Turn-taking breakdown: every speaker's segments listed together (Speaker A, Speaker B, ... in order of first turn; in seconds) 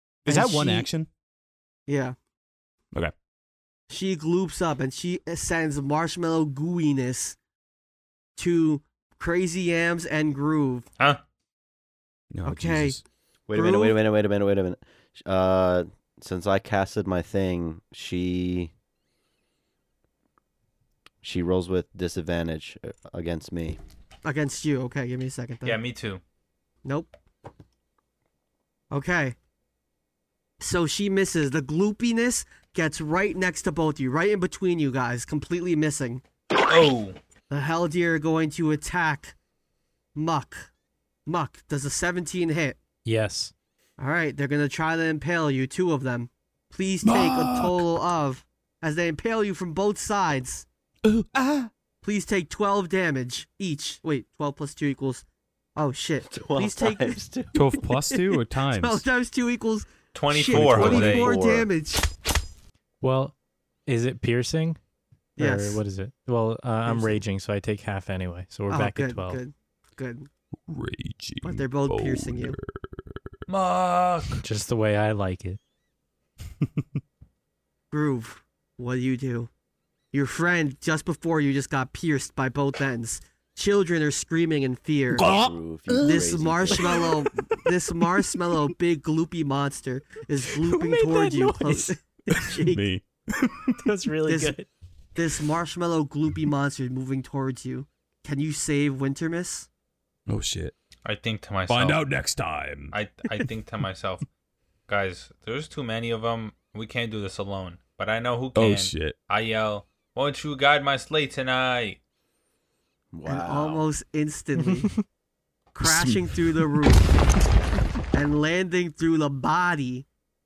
Speaker A: 0.2-1.1, 12.3-13.0, 47.0-47.8, 51.0-51.7, 57.5-59.0, 60.5-61.2, 70.7-73.2, 85.1-86.2, 92.4-93.7, 100.3-100.7, 101.7-103.0, 108.6-109.2, 115.8-116.8
Speaker B: 0.3-0.9, 1.9-2.2, 3.9-7.4, 8.4-10.9, 12.4-13.0, 13.5-14.0, 24.2-25.8, 26.9-27.1, 28.9-29.4, 30.6-36.2, 37.5-39.4, 40.1-40.7, 41.3-42.8, 44.0-50.7, 52.0-55.2, 55.8-57.2, 58.1-62.1, 65.4-65.8, 66.9-67.2, 68.7-70.3, 71.4-72.6, 77.9-79.5, 80.1-85.2, 86.0-92.8, 94.3-94.6, 95.2-99.7, 113.2-114.9, 115.7-117.1, 118.1-120.1
Speaker C: 13.5-18.7, 21.2-23.8, 56.2-57.6, 60.8-61.7, 85.2-87.0, 113.1-113.9
Speaker D: 25.6-26.2, 36.6-37.2, 60.1-61.3, 73.5-74.4, 101.0-102.0, 102.9-104.2, 104.9-112.0
Speaker E: 43.0-43.5, 63.0-63.3, 63.9-64.8, 65.4-69.4, 74.4-75.6, 90.6-92.0, 93.8-94.7, 114.6-115.0